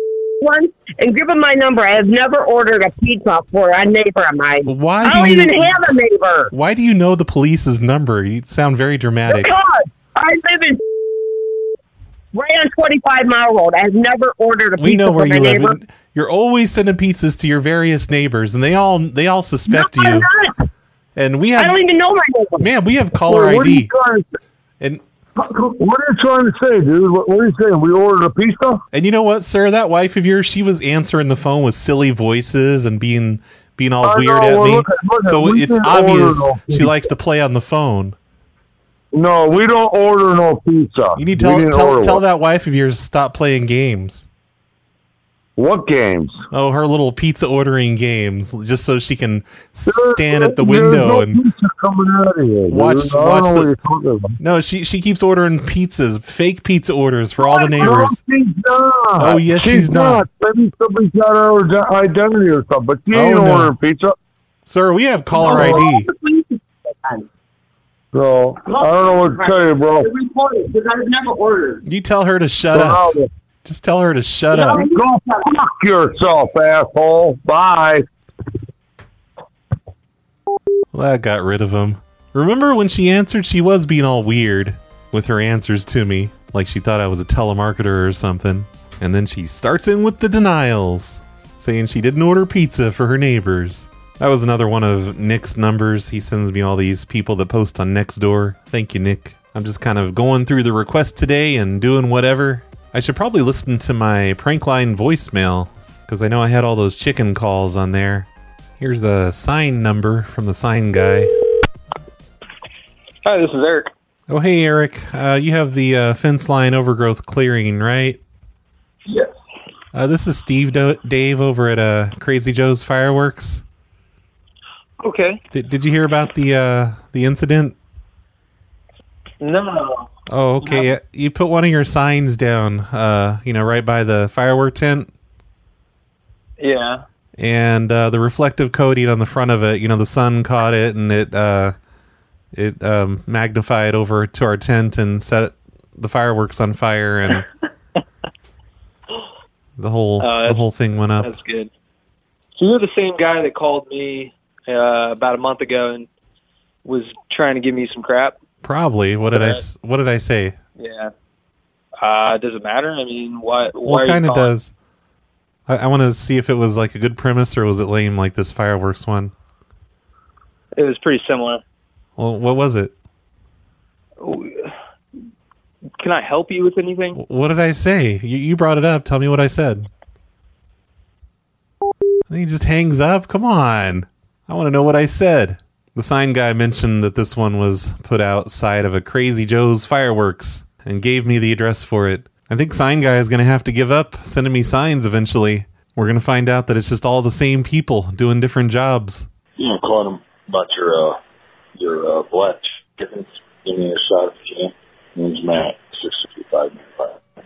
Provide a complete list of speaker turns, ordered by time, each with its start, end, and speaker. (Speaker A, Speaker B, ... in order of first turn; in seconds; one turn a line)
Speaker A: 0.4-6.5
Speaker B: 4.6-5.9
Speaker B: 6.5-9.5
Speaker A: 9.3-10.8
Speaker A: 12.3-15.7
Speaker B: 14.8-20.3
Speaker A: 19.7-20.5
Speaker B: 21.1-21.8
Speaker A: 21.6-22.6
Speaker B: 22.6-23.9
Speaker C: 23.2-24.2
Speaker C: 25.4-28.8
Speaker B: 28.9-38.1
Speaker C: 34.0-37.0
Speaker C: 39.1-42.2
Speaker B: 41.1-44.2
Speaker C: 45.6-46.3
Speaker B: 46.5-51.4
Speaker C: 49.9-54.3
Speaker B: 52.7-53.7
Speaker B: 54.4-58.2
Speaker C: 57.4-64.1
Speaker B: 59.2-60.2
Speaker B: 63.1-63.7
Speaker B: 64.7-66.1
Speaker A: 65.3-67.2
Speaker C: 65.4-65.9
Speaker C: 68.1-70.1
Speaker A: 68.7-71.8
Speaker B: 71.8-74.8
Speaker C: 72.7-73.3
Speaker A: 74.5-75.0
Speaker C: 74.6-78.0
Speaker B: 80.9-108.3
Speaker B: 108.8-111.3
Speaker D: 113.2-113.9
Speaker B: 114.3-118.2
Speaker B: 119.9-123.6
Speaker D: 125.0-125.4
Speaker B: 125.5-127.8
Speaker D: 129.4-130.1
Speaker B: 130.3-135.1
Speaker D: 130.6-130.9
Speaker D: 136.6-137.0
Speaker B: 137.4-141.7
Speaker B: 142.5-147.4
Speaker B: 149.8-151.3
Speaker D: 150.2-150.6
Speaker D: 151.2-151.7
Speaker D: 152.6-156.1
Speaker D: 156.8-158.4
Speaker B: 158.6-160.6
Speaker D: 159.3-159.6
Speaker D: 160.8-161.1
Speaker D: 162.0-164.5
Speaker B: 163.8-164.7
Speaker B: 165.7-169.3
Speaker D: 170.8-171.6
Speaker B: 172.2-172.9
Speaker D: 174.2-174.7
Speaker D: 176.0-177.2
Speaker B: 177.1-179.9
Speaker B: 182.3-199.3
Speaker E: 199.6-201.2
Speaker E: 201.8-207.2